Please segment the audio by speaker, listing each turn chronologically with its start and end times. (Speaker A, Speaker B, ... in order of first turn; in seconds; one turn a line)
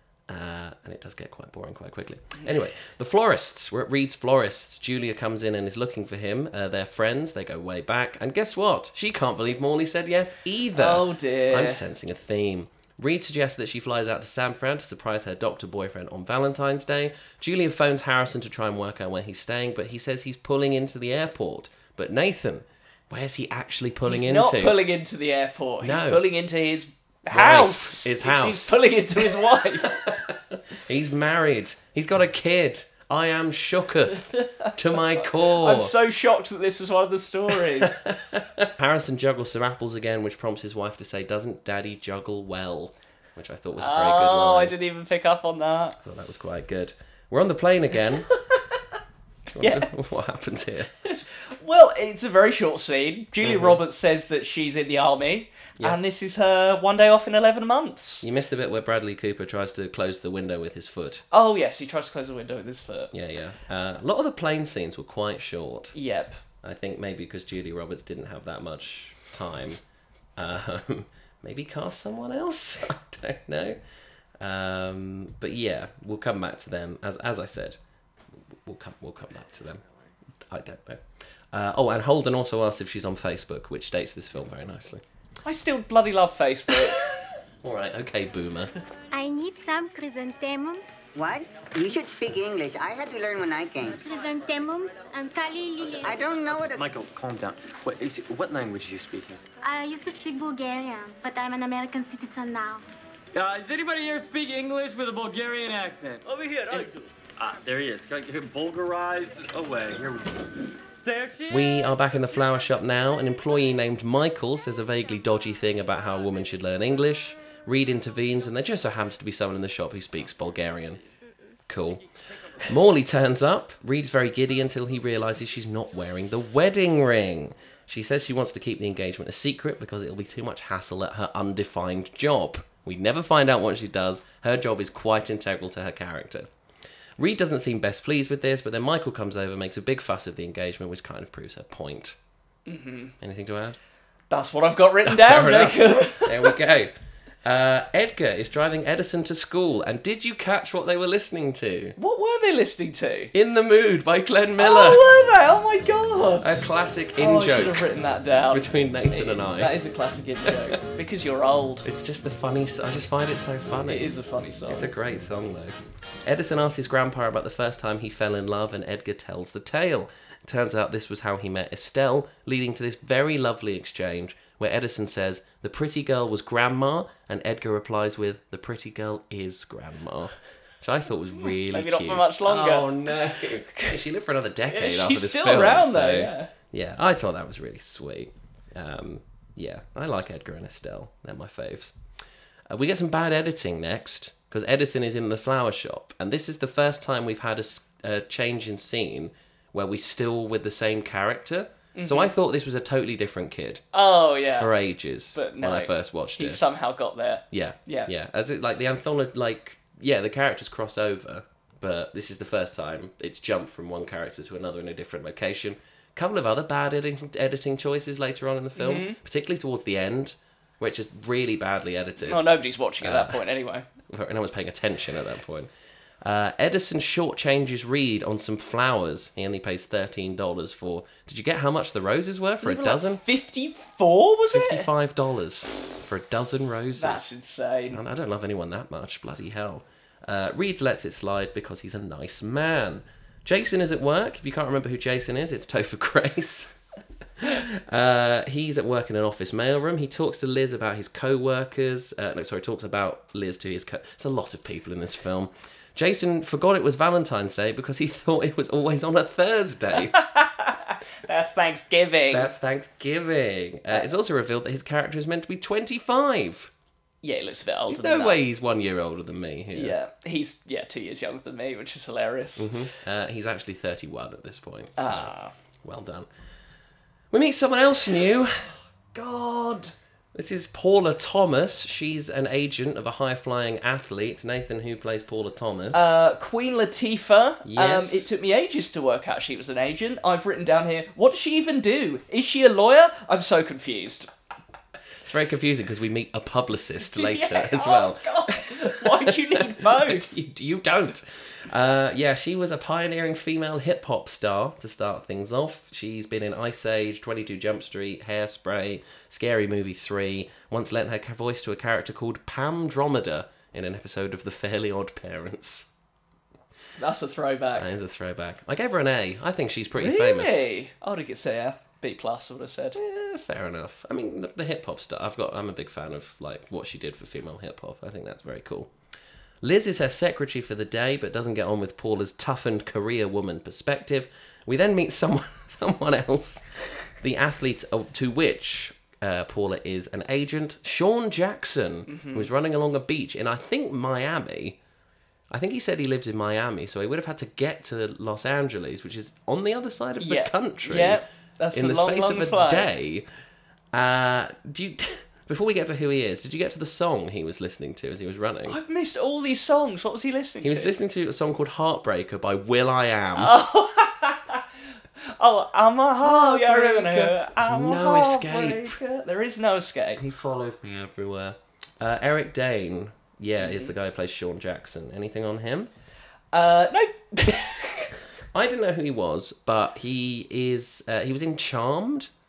Speaker A: 0.3-24.8
Speaker B: 10.8-11.8
Speaker B: 24.1-30.1
Speaker A: 25.8-26.2
Speaker A: 27.3-35.9
Speaker B: 34.3-38.0
Speaker A: 37.7-44.8
Speaker B: 43.8-46.0
Speaker A: 46.0-48.3
Speaker A: 49.5-50.9
Speaker B: 49.6-50.1
Speaker B: 51.1-58.2
Speaker A: 53.4-53.8
Speaker A: 58.2-61.2
Speaker B: 61.3-63.1
Speaker A: 63.1-66.0
Speaker B: 65.9-66.4
Speaker A: 66.6-69.8
Speaker A: 70.4-73.8
Speaker A: 74.4-77.8
Speaker A: 78.6-79.8
Speaker A: 80.4-85.0
Speaker B: 85.5-87.0
Speaker A: 86.7-88.7
Speaker C: 89.1-91.0
Speaker D: 91.1-94.0
Speaker C: 94.0-96.1
Speaker D: 96.0-96.8
Speaker E: 96.6-99.4
Speaker C: 99.6-102.8
Speaker E: 103.3-111.9
Speaker A: 111.5-121.0
Speaker A: 121.7-122.1
Speaker A: 122.6-136.5
Speaker A: 137.2-142.2
Speaker B: 142.7-143.1
Speaker A: 143.2-143.8
Speaker B: 144.3-146.6
Speaker A: 145.0-146.9
Speaker A: 147.4-151.9
Speaker B: 152.0-153.3
Speaker A: 153.3-155.1
Speaker B: 154.6-161.9
Speaker A: 156.4-157.9
Speaker A: 158.5-159.8
Speaker A: 160.4-160.8
Speaker A: 161.8-164.1
Speaker B: 163.9-164.9
Speaker A: 164.7-192.0
Speaker B: 181.4-183.1
Speaker B: 184.7-186.5
Speaker A: 192.7-203.8
Speaker B: 201.9-202.3
Speaker B: 203.9-204.7
Speaker A: 204.5-206.6
Speaker B: 205.3-208.1
Speaker A: 207.5-222.5
Speaker B: 218.8-219.2
Speaker B: 222.2-223.9
Speaker A: 223.0-223.4
Speaker A: 224.1-225.7
Speaker A: 226.2-233.2
Speaker B: 232.6-234.9
Speaker A: 234.5-237.3
Speaker B: 237.0-238.0
Speaker A: 237.9-246.8
Speaker A: 247.4-260.2
Speaker B: 260.1-262.5
Speaker A: 262.3-266.7
Speaker B: 267.2-268.4
Speaker A: 267.9-270.0
Speaker B: 269.7-272.8
Speaker A: 272.6-276.3
Speaker B: 275.0-275.5
Speaker A: 277.3-278.7
Speaker B: 279.1-279.9
Speaker A: 280.3-286.1
Speaker B: 285.9-294.3
Speaker A: 287.6-288.3
Speaker A: 295.2-315.9
Speaker B: 297.0-300.3
Speaker B: 317.0-317.9
Speaker A: 317.8-320.6
Speaker B: 320.0-323.0
Speaker A: 322.9-328.9
Speaker A: 329.6-344.8
Speaker B: 342.1-342.5
Speaker A: 345.5-353.3
Speaker B: 350.2-352.9
Speaker A: 353.9-358.8
Speaker B: 358.7-360.9
Speaker A: 360.6-363.6
Speaker B: 363.4-364.6
Speaker B: 365.2-370.2
Speaker A: 366.2-369.3
Speaker A: 370.2-375.9
Speaker B: 373.6-373.9
Speaker B: 376.5-378.1
Speaker A: 378.5-382.3